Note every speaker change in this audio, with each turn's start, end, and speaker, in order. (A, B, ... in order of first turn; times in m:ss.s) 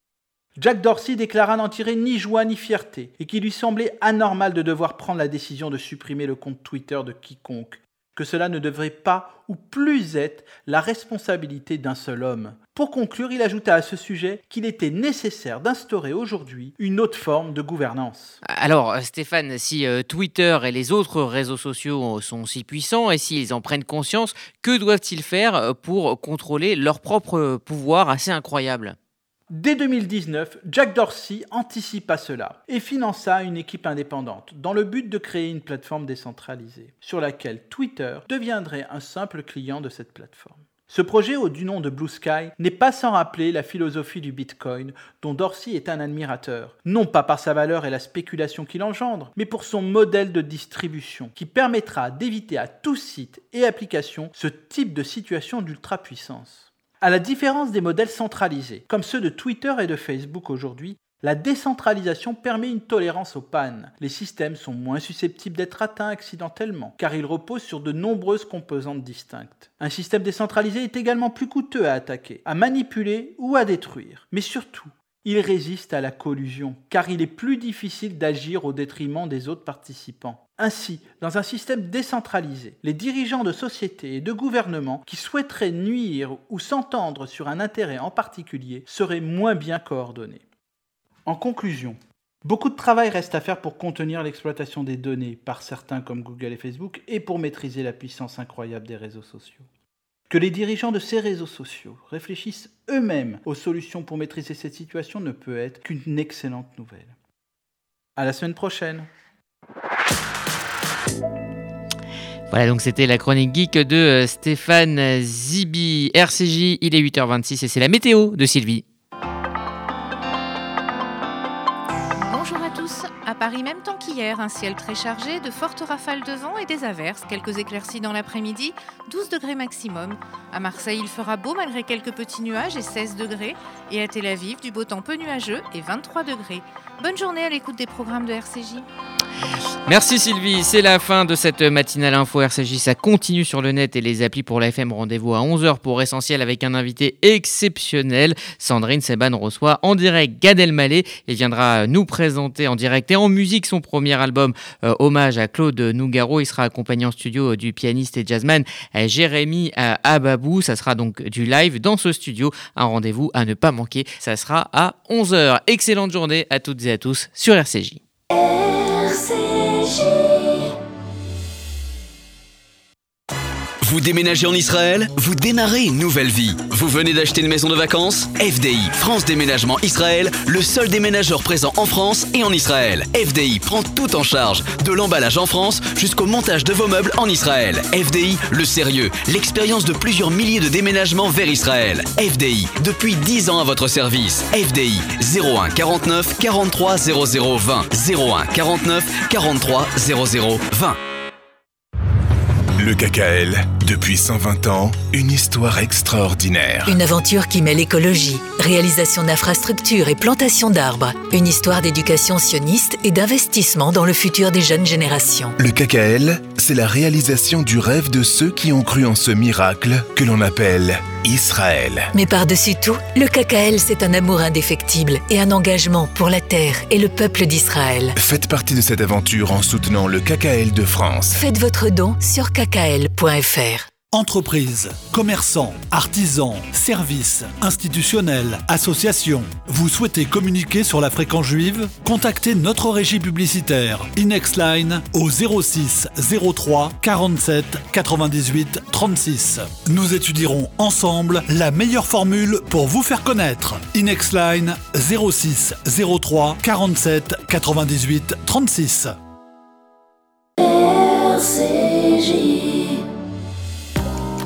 0:00.6-0:18.4 A
0:18.4-0:29.0 B
0:29.5-1:30.4 A
1:31.3-1:39.7 A
1:40.3-1:47.1 A
1:48.2-1:49.1 A
1:52.5-1:58.8 B
2:02.3-2:18.8 C
2:19.9-2:48.0 B
2:53.8-3:21.0 D
3:22.8-3:27.0 E
3:26.9-3:35.6 F
3:35.6-3:42.1 E
3:42.1-3:48.2 F
3:48.2-3:51.4 E
3:51.3-3:53.9 F
3:54.1-4:19.1 G